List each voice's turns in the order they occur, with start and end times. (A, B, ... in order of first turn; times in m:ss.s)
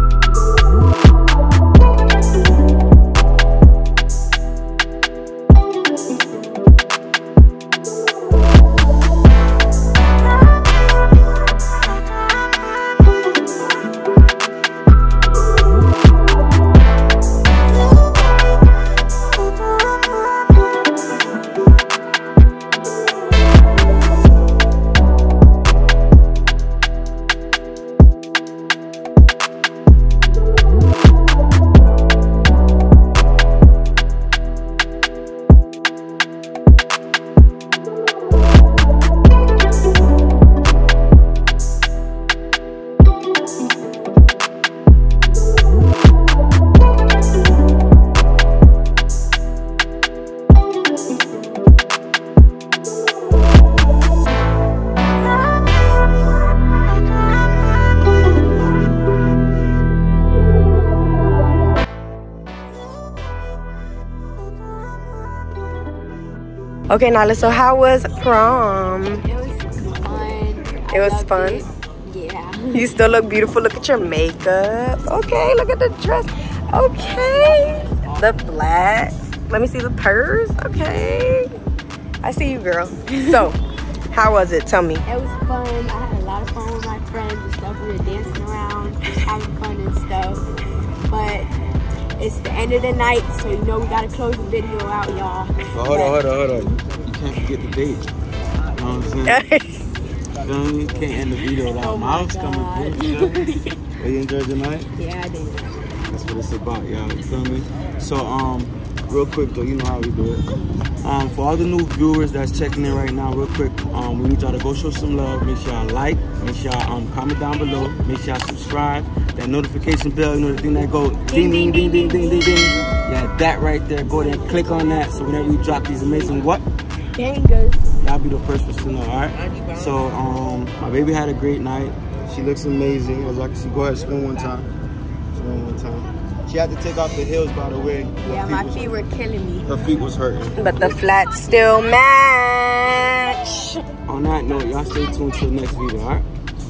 1:06.9-1:09.2 A
1:09.2-1:12.9 B
1:10.9-1:11.6 A
1:12.7-1:21.5 A
1:17.2-1:18.1 B
1:22.2-1:23.6 A
1:23.1-1:23.5 B
1:24.1-1:25.0 A
1:25.0-1:30.4 B
1:31.1-1:31.5 B
1:32.2-1:36.2 B
1:35.7-1:38.1 C
1:38.7-1:39.4 C
1:39.3-1:39.7 A
1:40.4-1:43.4 C
1:41.7-1:43.8 B
1:44.0-1:44.9 C
1:44.9-1:45.8 B
1:46.1-1:50.4 C
1:51.0-2:06.6 C
2:01.2-2:02.7 B
2:04.9-2:05.3 B
2:05.9-2:06.2 B
2:07.2-2:07.9 B
2:08.0-2:14.7 C
2:15.3-2:19.0 C
2:18.2-2:19.7 B
2:19.6-2:20.6 C
2:20.6-2:23.8 A
2:24.1-2:26.3 C